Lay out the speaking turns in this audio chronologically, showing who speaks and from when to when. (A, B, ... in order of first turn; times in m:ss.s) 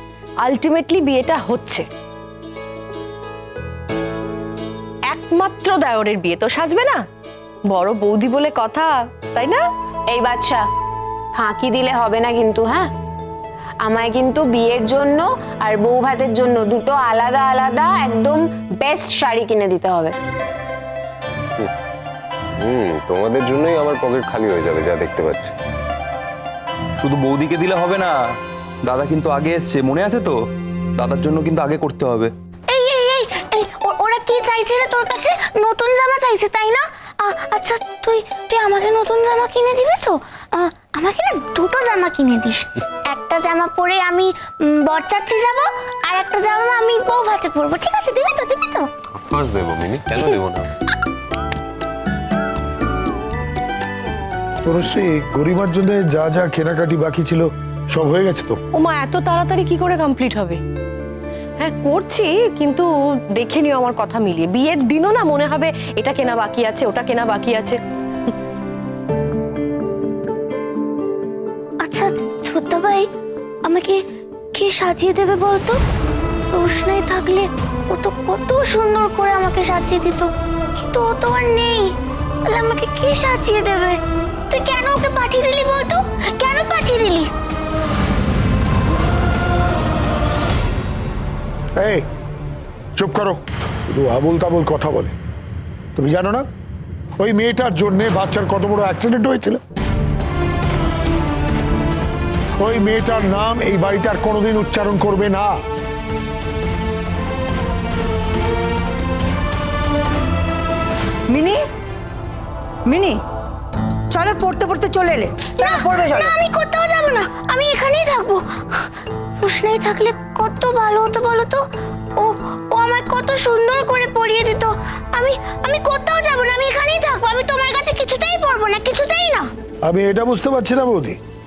0:00.4-0:01.8 A
0:05.1-0:07.0 A
0:07.7-0:09.6 A
0:10.1-0:10.6 B
0:11.4-0:12.9 B
0:13.8-0:20.1 B
0:22.6-0:25.5 C
0:27.0-0:28.1 D
0:28.8-0:30.4 D
0:31.0-0:32.3 D
0:32.7-0:42.6 E
0:43.1-0:48.8 E
0:49.2-0:50.7 C
0:50.1-0:50.3 E
0:54.6-0:58.6 F
0:58.8-1:00.6 A
1:01.6-1:07.8 A
1:11.8-1:13.0 E
1:13.7-1:14.0 E
1:14.6-1:15.8 E
1:16.6-1:21.9 E
1:22.5-1:24.0 E
1:24.5-1:27.2 E
1:31.8-1:32.0 F
1:33.0-1:35.1 F
1:35.9-1:36.4 F
1:37.2-1:39.6 F
1:42.6-1:45.6 F
1:51.3-1:51.6 G
1:52.8-1:53.2 G
1:54.1-1:56.3 G
1:55.6-1:58.4 E
1:59.4-2:01.6 E
2:02.2-2:09.4 E
2:09.8-2:11.2 F